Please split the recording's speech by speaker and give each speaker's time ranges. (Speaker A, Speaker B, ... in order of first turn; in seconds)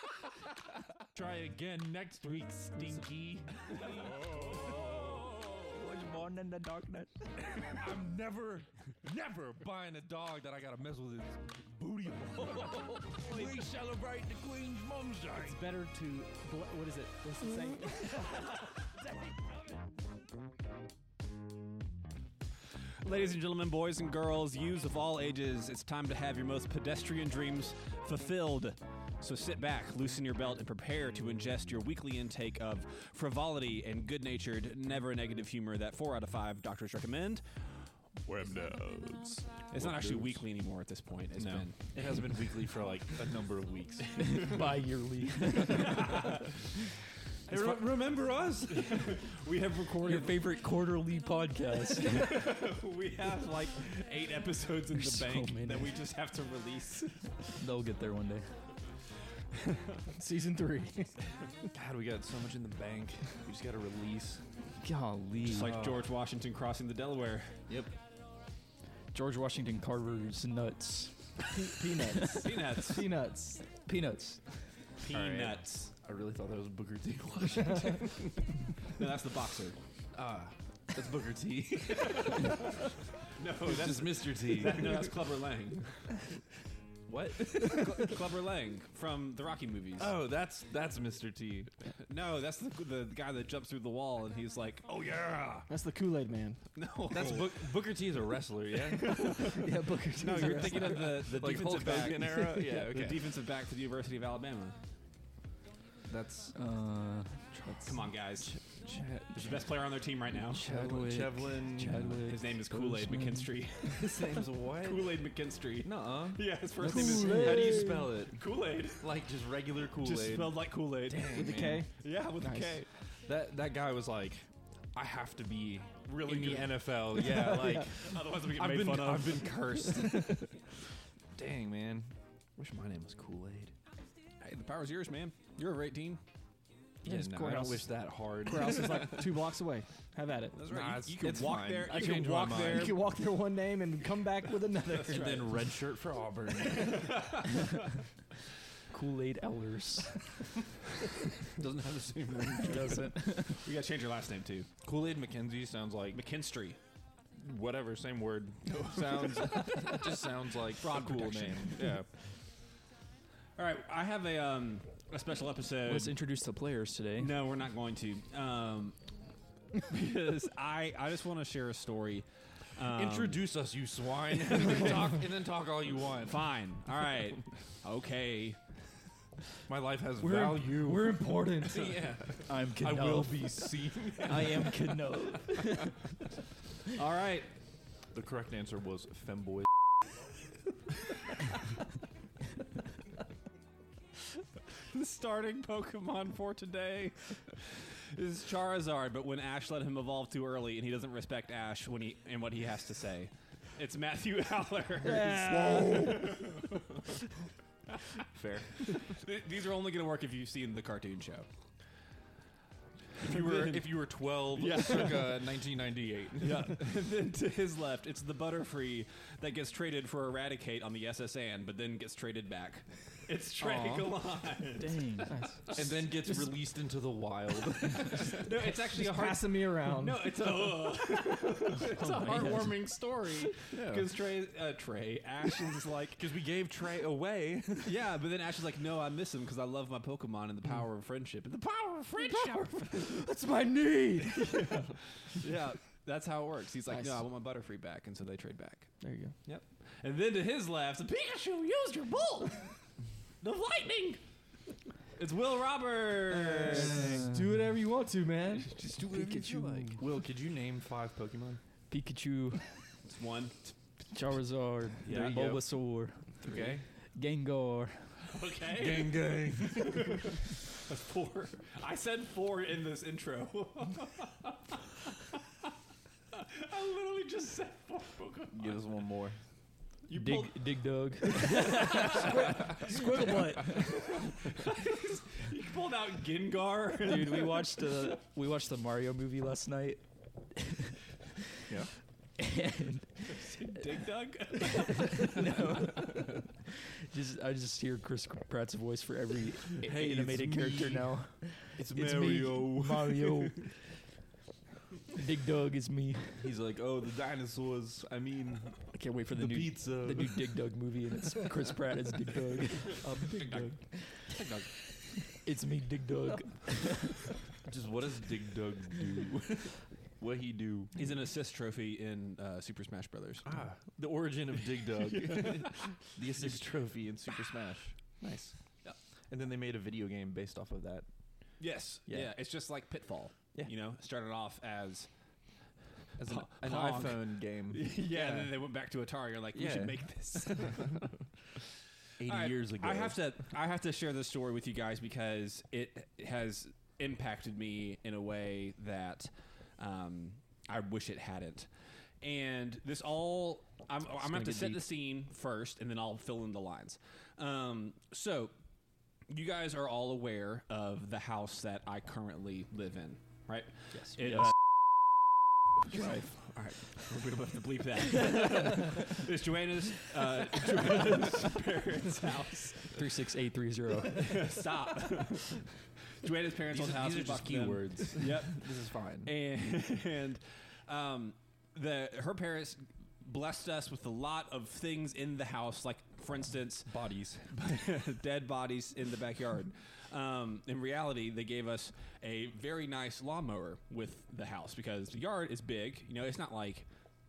Speaker A: 1.1-15.6, 38.2-40.4, 41.4-44.6, 47.5-49.2, 61.7-64.4, 65.5-66.1, 67.7-67.9, 75.1-78.3, 80.1-82.6, 83.6-85.1, 87.1-87.7, 90.0-91.7, 97.1-99.3, 100.4-103.3, 106.1-106.6, 108.9-109.4, 110.6-112.2, 113.8-115.2, 115.8-118.4, 119.0-121.9, 123.3-130.4, 131.3-133.8, 137.0-139.4, 140.7-143.0, 145.0-147.2, 151.6-153.1, 154.8-156.2, 157.4-162.1, 172.9-176.5, 179.7-184.8, 188.1-189.7, 208.3-208.9, 213.2-216.9, 223.6-224.1, 225.7-228.5, 233.7-234.1, 236.2-237.9, 256.6-257.4, 258.9-261.6, 265.1-265.6, 266.4-266.9, 268.7-270.3, 278.5-279.4, 299.8-303.7, 306.4-310.6, 317.6-320.9, 323.4-327.9, 329.3-331.1, 336.2-338.4, 339.5-340.8, 342.2-343.2, 376.7-379.3, 386.9-387.5
Speaker B: 15.3-18.2, 60.2-61.1, 71.5-73.7, 95.7-96.6, 99.0-100.9, 102.5-102.8, 116.8-118.1, 121.2-122.8, 127.2-127.9, 129.9-130.4, 137.0-137.9, 138.4-140.6, 141.9-145.5, 180.2-182.0, 205.0-206.4, 225.3-225.6, 228.9-230.3, 242.3-244.9, 246.9-247.2, 249.0-249.3, 256.3-258.7, 281.3-284.1, 328.2-328.5, 354.1-354.8
Speaker C: 23.0-37.5, 39.7-41.9, 45.8-46.4, 47.5-47.8, 48.7-50.4, 52.0-57.6, 65.5-67.6, 72.3-73.0, 75.0-75.9, 78.9-79.8, 82.0-82.7, 83.4-86.0, 87.5-90.1, 92.0-95.7, 96.8-97.6, 99.2-99.5, 100.2-104.8, 107.8-108.5, 109.3-110.7, 112.2-119.1, 120.0-122.9, 126.1-126.9, 127.9-129.6, 134.4-136.2, 140.5-143.0, 145.0-145.4, 146.6-147.9, 152.4-154.7, 156.1-156.8, 158.7-161.9, 163.6-166.2, 167.2-169.0, 169.8-173.4, 174.3-175.3, 176.2-178.6, 181.7-182.4, 186.9-187.5, 194.9-206.9, 208.8-211.5, 213.2-213.9, 214.5-215.4, 216.4-225.0, 225.7-225.9, 228.1-236.2, 237.8-243.1, 244.3-248.9, 249.4-252.8, 253.4-254.2, 255.2-257.1, 258.6-259.3, 263.1-263.7, 265.1-265.4, 268.2-275.4, 276.3-278.8, 280.1-280.6, 281.3-287.7, 293.3-296.1, 313.0-314.7, 320.9-323.5, 331.6-335.1, 336.2-341.0, 342.3-351.7, 352.2-358.5, 359.3-364.6, 365.9-373.0, 374.1-386.9, 387.5-396.9
Speaker D: 44.2-46.2, 50.0-52.4, 54.9-56.0, 57.6-58.5, 64.8-65.8, 69.1-71.5, 72.2-72.6, 73.8-74.7, 99.6-101.1, 106.5-109.3, 110.5-113.5, 148.9-150.5, 152.6-153.7, 165.8-167.4, 182.5-186.1, 224.8-225.4, 232.0-232.8, 259.1-260.0, 261.9-262.8, 264.1-266.6, 267.1-268.2, 280.1-283.0, 287.0-290.0, 290.5-290.9, 292.4-293.5, 294.7-296.5, 297.1-303.7, 305.1-306.5, 308.9-314.3, 315.3-317.3, 363.9-364.5, 365.9-366.4, 372.9-374.4